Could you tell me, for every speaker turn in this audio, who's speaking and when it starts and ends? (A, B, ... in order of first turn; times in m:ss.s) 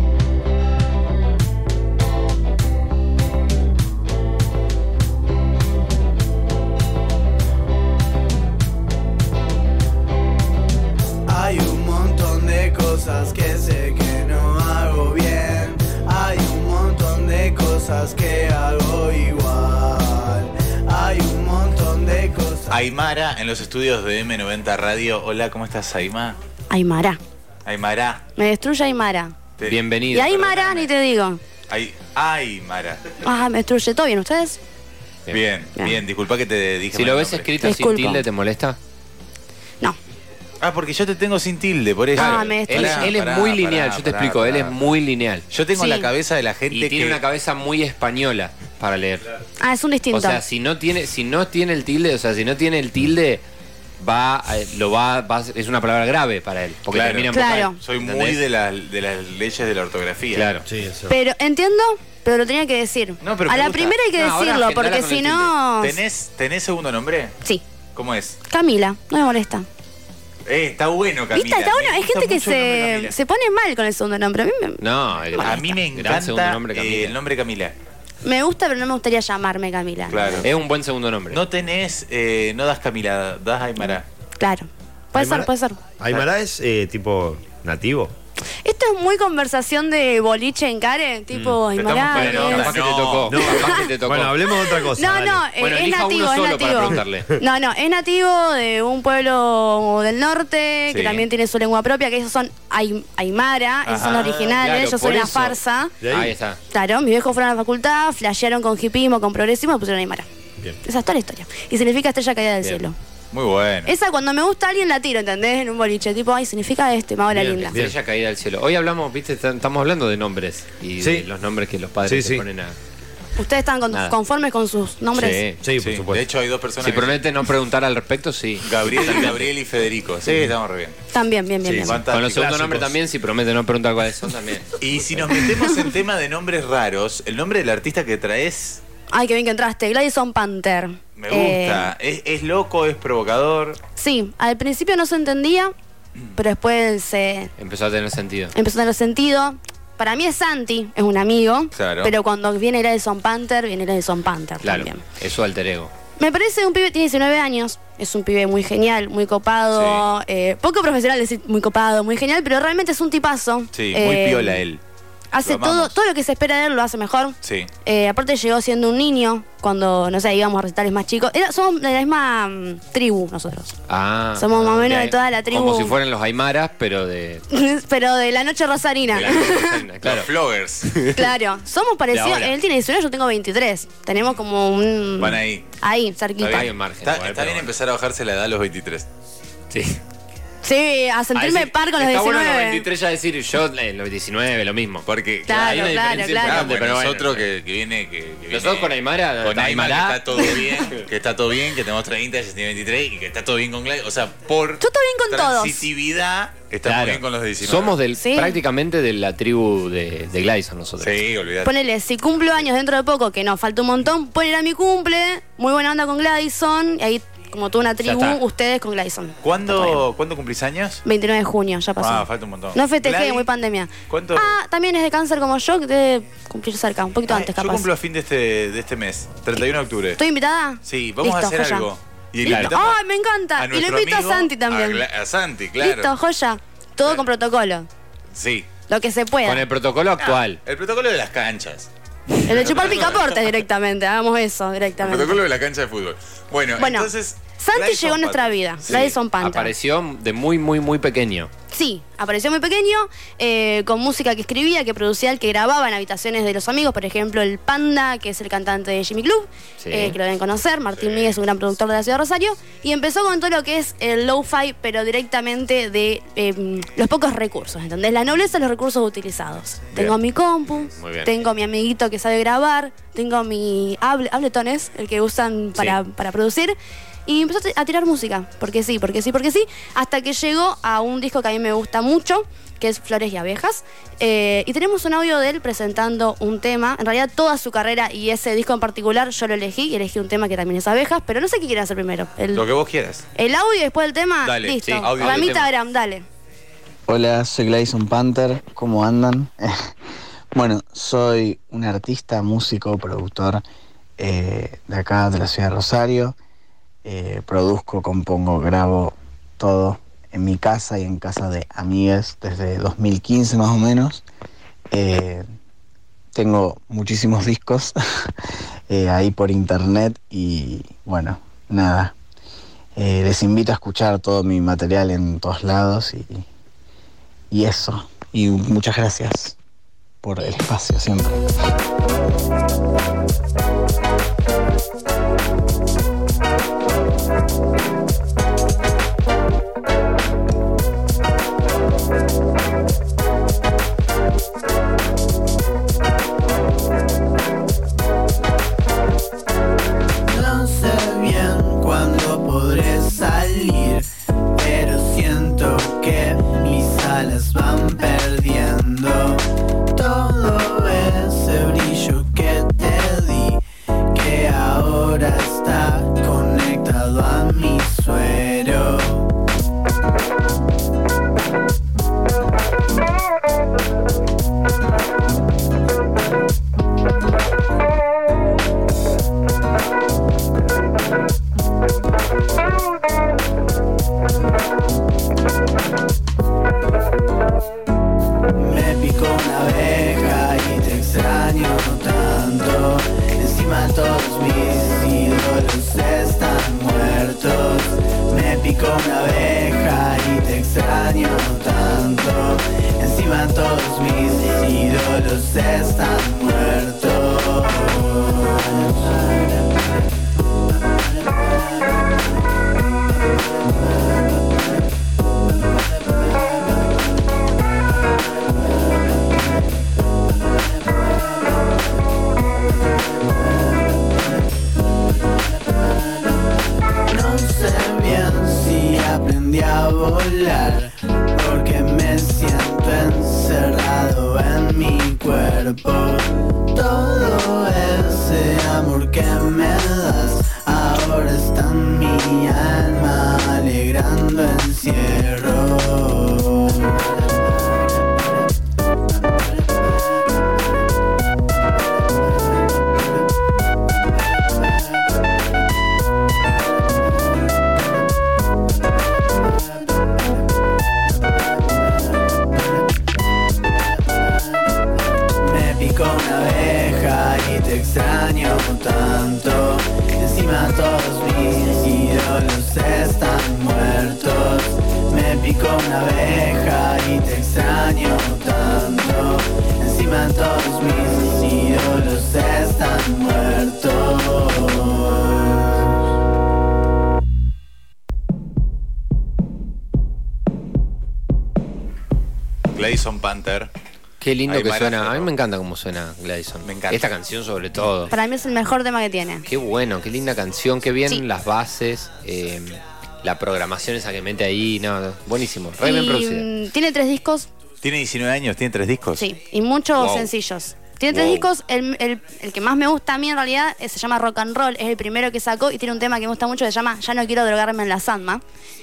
0:11.3-0:22.7 A
0:22.7-0:26.4 B
0:26.7-0:27.2 C
0:27.7-0:28.2 B
0:28.4-0:29.5 C
0:29.6-0:30.8 D
0:30.1-0:31.4 C
0:31.7-0:33.0 B
0:33.2-0:34.6 C
0:35.3-0:37.6 B
0:36.9-0:38.8 D
0:37.6-0:38.2 C
0:40.6-0:45.0 B
0:42.1-0:45.4 D
0:42.2-0:43.1 C
0:45.5-0:47.2 B
0:45.7-0:46.1 C
0:46.7-0:49.3 D
0:49.6-0:50.4 C
0:50.1-0:53.4 D
0:54.0-0:58.4 D
0:56.9-1:00.5 B
0:57.3-0:57.8 C
1:00.3-1:00.6 D
1:00.6-1:01.1 E
1:01.1-1:06.0 C
1:03.2-1:04.1 B
1:04.2-1:05.5 D
1:05.8-1:07.3 B
1:08.0-1:08.4 B
1:08.5-1:09.7 C
1:10.4-1:13.2 B
1:11.3-1:14.8 C
1:14.8-1:17.2 D
1:15.3-1:17.7 B
1:15.3-1:15.7 C
1:18.2-1:20.4 C
1:20.1-1:20.6 B
1:20.4-1:21.4 D
1:21.3-1:24.1 B
1:24.4-1:25.8 C
1:25.2-1:28.1 E
1:26.0-1:26.3 B
1:28.6-1:32.8 C
1:31.5-1:33.6 B
1:32.1-1:34.4 D
1:33.1-1:35.5 E
1:33.4-1:46.0 C
1:35.6-1:37.2 D
1:36.8-1:37.4 E
1:40.9-1:41.2 B
1:43.8-1:44.4 B
1:44.4-1:45.6 D
1:46.0-1:46.4 E
1:46.1-1:46.6 D
1:46.7-1:50.3 C
1:50.8-1:53.0 C
1:53.3-1:53.9 B
1:53.9-1:57.9 C
1:57.3-1:58.0 E
1:57.8-2:02.8 D
2:01.0-2:01.3 E
2:02.0-2:02.5 E
2:03.4-2:05.5 C
2:05.1-2:05.6 D
2:05.6-2:06.2 E
2:05.8-2:07.3 B
2:06.8-2:09.4 D
2:08.6-2:11.0 B
2:10.2-2:10.5 E
2:11.1-2:12.0 C
2:11.6-2:13.0 E
2:11.7-2:12.7 B
2:12.1-2:14.7 D
2:14.8-2:18.8 B
2:19.1-2:21.9 C
2:21.2-2:23.8 B
2:24.0-2:25.7 C
2:26.3-2:27.5 C
2:27.6-2:28.5 D
2:28.5-2:35.0 C
2:31.8-2:32.1 B
2:34.6-2:35.9 D
2:36.2-2:44.6 C
2:39.7-2:40.0 B
2:43.7-2:44.8 B
2:45.3-2:53.8 C
2:45.4-2:46.0 B
2:47.4-2:47.7 B
2:53.9-2:57.4 D
2:54.4-2:56.0 C
2:57.5-2:59.8 C
2:59.2-3:00.3 D
3:00.0-3:01.0 B
3:00.8-3:01.2 D
3:01.1-3:06.7 C
3:02.1-3:02.6 D
3:05.2-3:05.7 B
3:06.4-3:09.1 B
3:06.6-3:07.7 D
3:09.7-3:10.0 D
3:10.6-3:12.9 C
3:11.3-3:17.5 D
3:15.0-3:28.0 B
3:15.4-3:16.7 C
3:18.5-3:20.6 D
3:24.8-3:25.9 C
3:26.8-3:31.2 D
3:28.1-3:28.6 C
3:31.0-3:31.7 B
3:31.6-3:39.4 C
3:38.0-3:38.4 D
3:39.4-3:41.0 B
3:41.0-3:47.9 C
3:42.0-3:43.5 B
3:44.1-3:44.6 B
3:47.3-3:50.2 B
3:50.2-3:51.9 C
3:50.8-3:53.0 B
3:52.4-3:55.0 C
3:52.4-3:52.8 D
3:53.6-3:56.1 B
3:55.8-3:57.9 C
3:58.3-3:58.7 B
3:58.9-3:59.7 C
3:59.4-4:00.6 D
4:00.2-4:01.9 B
4:02.4-4:05.4 C
4:02.5-4:03.6 B
4:05.0-4:09.1 B
4:06.8-4:09.7 C
4:08.9-4:11.5 D
4:11.7-4:52.7 C
4:19.8-4:20.2 D
4:30.8-4:31.3 D
4:52.5-4:53.2 B
4:53.3-4:56.2 C
4:54.4-4:55.7 B
4:54.8-4:55.5 D
4:57.1-4:59.7 F
5:00.5-5:03.6 F
5:04.2-5:06.4 F
5:07.0-5:14.2 F
5:14.9-5:15.4 F
5:16.3-5:18.0 F
5:18.9-5:22.1 F
5:23.0-5:26.4 F
5:27.5-5:29.6 F
5:30.2-5:31.4 F
5:50.2-5:59.4 A
5:59.9-6:03.6 A
6:04.1-6:09.2 A
6:28.6-6:49.2 A
7:07.1-7:27.1 A
7:45.5-8:05.6 A
8:12.7-8:13.7 B
8:14.2-8:18.1 D
8:14.4-8:15.3 B
8:16.6-8:17.2 B
8:18.1-8:19.5 C
8:19.5-8:26.5 D
8:25.8-8:27.5 C
8:27.8-8:29.2 B
8:29.2-8:38.4 C
8:30.0-8:30.3 D